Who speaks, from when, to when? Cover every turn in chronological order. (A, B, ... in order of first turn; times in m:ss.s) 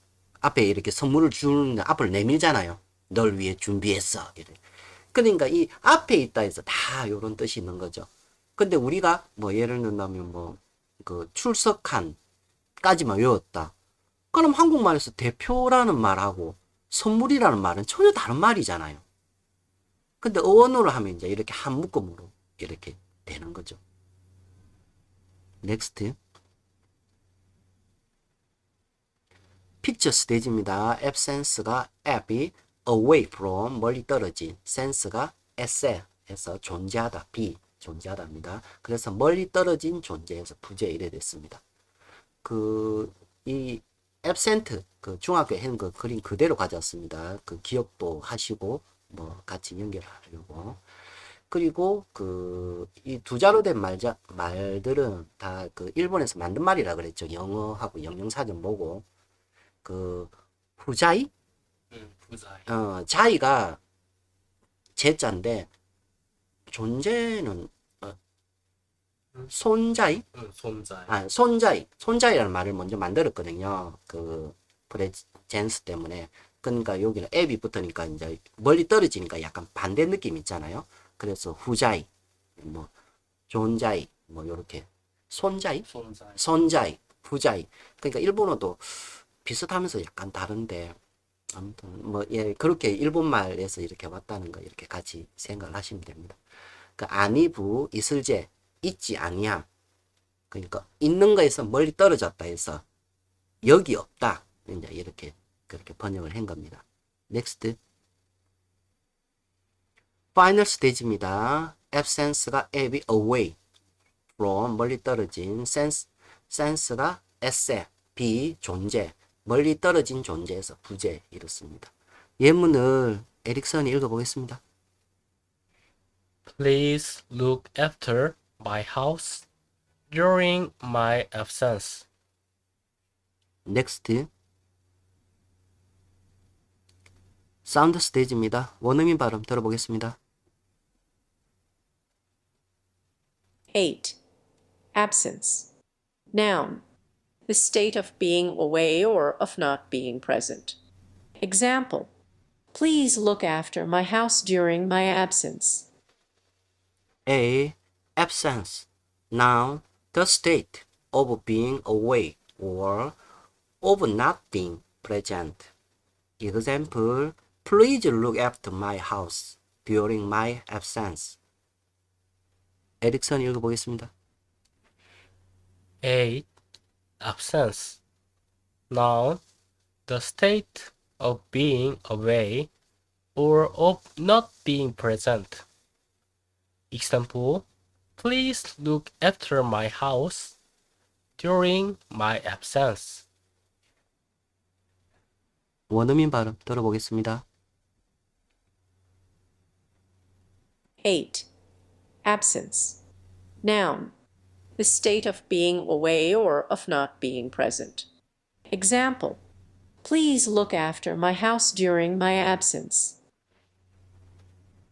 0:00.4-0:04.6 A
0:05.1-0:12.2 A
0:12.8-0:13.7 A
0:14.3-0:19.0 A
0:20.2-0:23.8 A
0:25.6-0:26.2 A
0:29.8-0:41.6 A
0:42.4-0:50.8 A
0:51.5-0:59.0 A
0:59.8-1:01.3 A
1:01.9-1:02.6 B
1:02.7-1:03.8 A
1:05.0-1:05.7 A
1:06.7-1:08.2 A
1:09.5-1:10.2 A
1:10.3-1:11.1 B
1:11.1-1:22.1 A
1:22.6-1:22.9 A
1:23.5-1:25.8 A
1:26.0-1:26.4 B
1:26.4-1:31.0 A
1:31.5-1:36.4 A
1:37.0-1:39.7 A
1:40.5-1:42.8 A
1:43.6-1:47.8 A
1:50.4-1:53.6 A
1:54.4-2:04.6 A
2:06.5-2:09.5 B
2:10.1-2:12.1 B
2:13.7-2:14.3 A
2:17.6-2:20.2 A
2:23.7-2:24.2 C
2:25.0-2:25.7 C
2:26.3-2:26.8 C
2:27.5-2:30.8 C
2:31.4-2:32.1 C
2:32.7-2:35.9 C
2:37.3-2:43.2 A
2:43.8-2:45.7 A
2:46.4-2:51.4 A
2:53.0-2:54.1 A
2:56.0-2:56.5 B
2:57.2-2:58.0 B
2:58.9-2:59.4 B
3:00.1-3:02.7 B
3:03.4-3:05.6 B
3:06.9-3:07.6 B
3:08.2-3:10.6 B
3:11.4-3:13.3 B
3:15.9-3:17.4 A
3:21.0-3:21.5 C
3:22.2-3:23.0 C
3:23.6-3:24.1 C
3:24.8-3:28.1 C
3:28.7-3:29.4 C
3:30.0-3:33.2 C